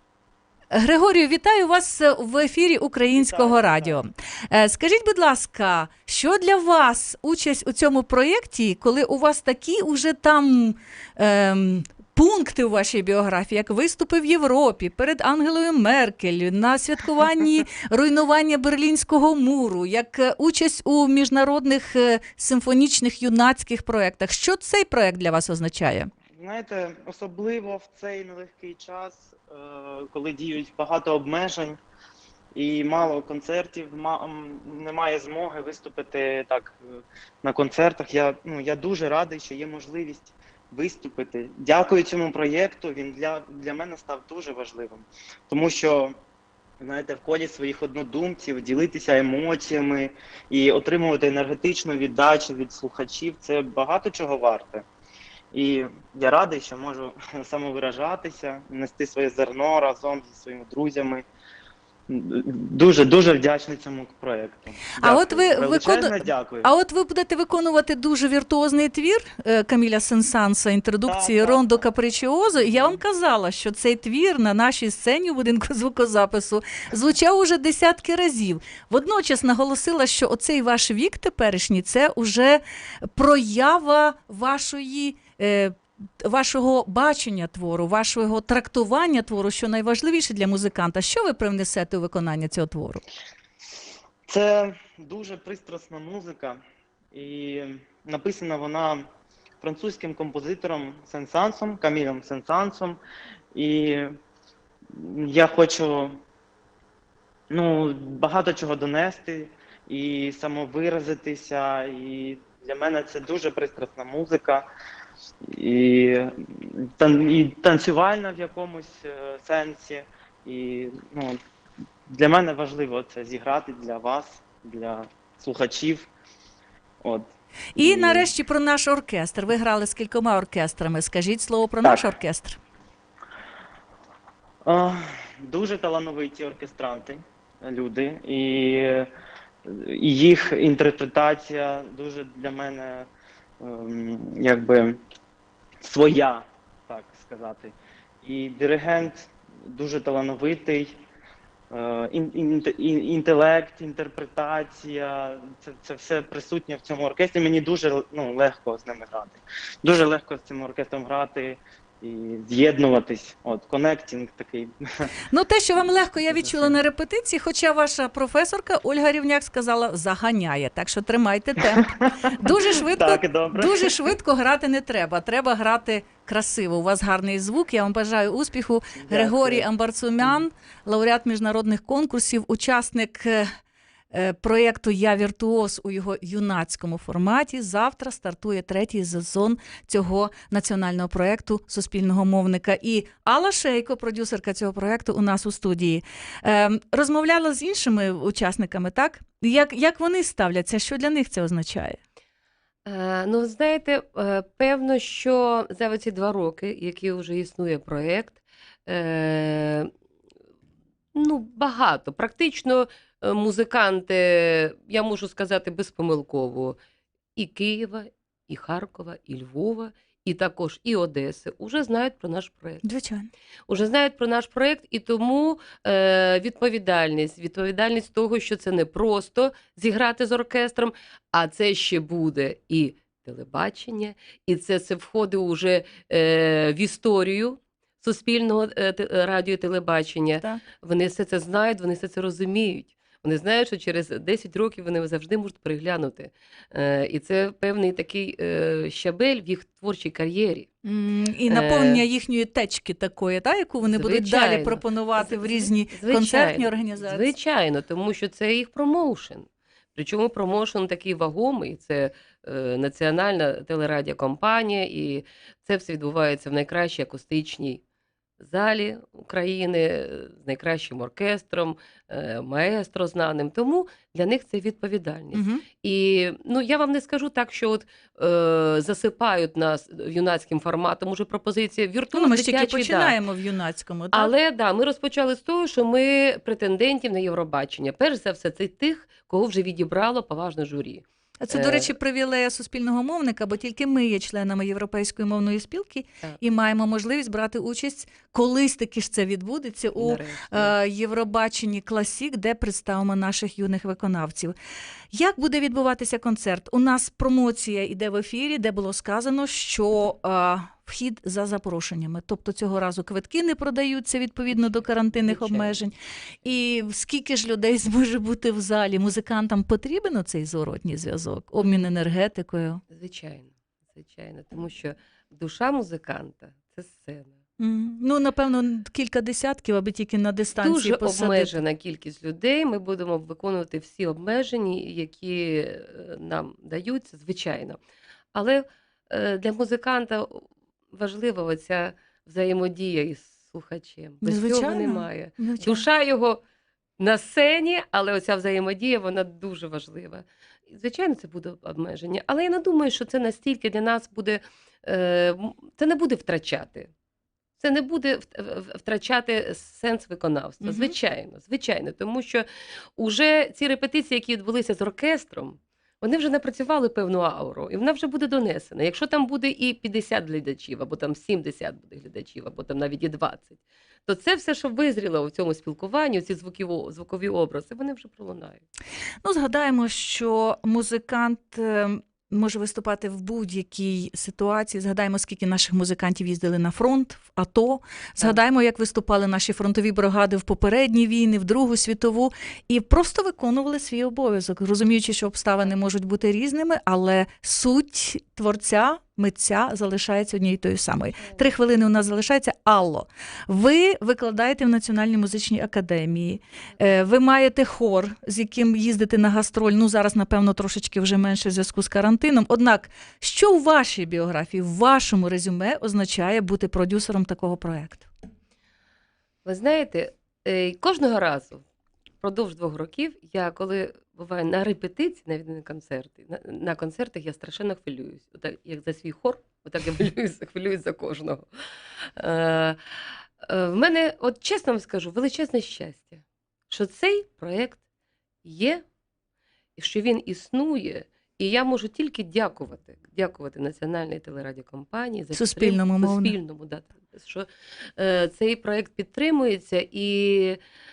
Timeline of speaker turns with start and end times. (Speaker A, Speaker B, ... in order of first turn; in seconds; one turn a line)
Speaker A: 0.7-26.1
Speaker B: 3.1-4.0
Speaker B: 26.3-31.8
Speaker B: 32.5-36.8
Speaker B: 37.4-46.2
Speaker B: 46.8-54.9
Speaker B: 55.5-61.2
Speaker B: 62.1-66.7
Speaker A: 65.0-93.0
Speaker B: 71.1-71.8
Speaker B: 72.6-72.9
Speaker B: 94.3-96.6
Speaker B: 97.1-99.0
Speaker B: 99.6-103.0
Speaker B: 103.5-104.0
Speaker B: 104.9-106.2
Speaker B: 107.5-114.6
Speaker B: 115.5-121.4
Speaker B: 122.1-126.1
Speaker B: 127.0-127.3
Speaker A: 127.7-132.6
Speaker B: 127.8-128.3
Speaker B: 131.8-132.1
Speaker B: 134.7-139.1
Speaker B: 139.7-143.1
Speaker B: 143.6-145.0
Speaker B: 145.8-151.0
Speaker B: 151.7-165.1
Speaker A: 165.3-183.5
Speaker B: 166.3-166.8
Speaker B: 171.7-172.2
Speaker B: 172.9-174.0
Speaker B: 179.0-179.7
Speaker A: 184.1-202.0
Speaker C: 202.8-209.9
Speaker C: 211.1-216.8
Speaker C: 217.3-222.8
Speaker A: 222.8-223.3
Speaker C: 223.7-250.7
Speaker A: 250.8-257.3
Speaker C: 251.5-252.0
Speaker C: 253.8-267.8
Speaker C: 268.4-283.2
Speaker A: 275.3-275.6
Speaker A: 282.1-284.3
Speaker C: 284.1-291.9
Speaker A: 291.4-304.5
Speaker C: 299.9-300.7
Speaker A: 305.1-322.8
Speaker C: 314.5-315.9
Speaker C: 321.6-321.9
Speaker C: 322.9-327.4
Speaker A: 327.6-331.6
Speaker C: 330.6-337.8
Speaker C: 338.3-346.4
Speaker A: 344.2-345.8
Speaker C: 347.0-356.9
Speaker C: 357.6-378.6
Speaker A: 360.6-360.9
Speaker A: 379.2-418.1
Speaker C: 419.4-421.6
Speaker C: 422.2-431.4
Speaker C: 432.0-432.8
Speaker C: 433.4-437.8
Speaker C: 438.4-438.8
Speaker C: 439.8-450.6
Speaker A: 445.3-446.4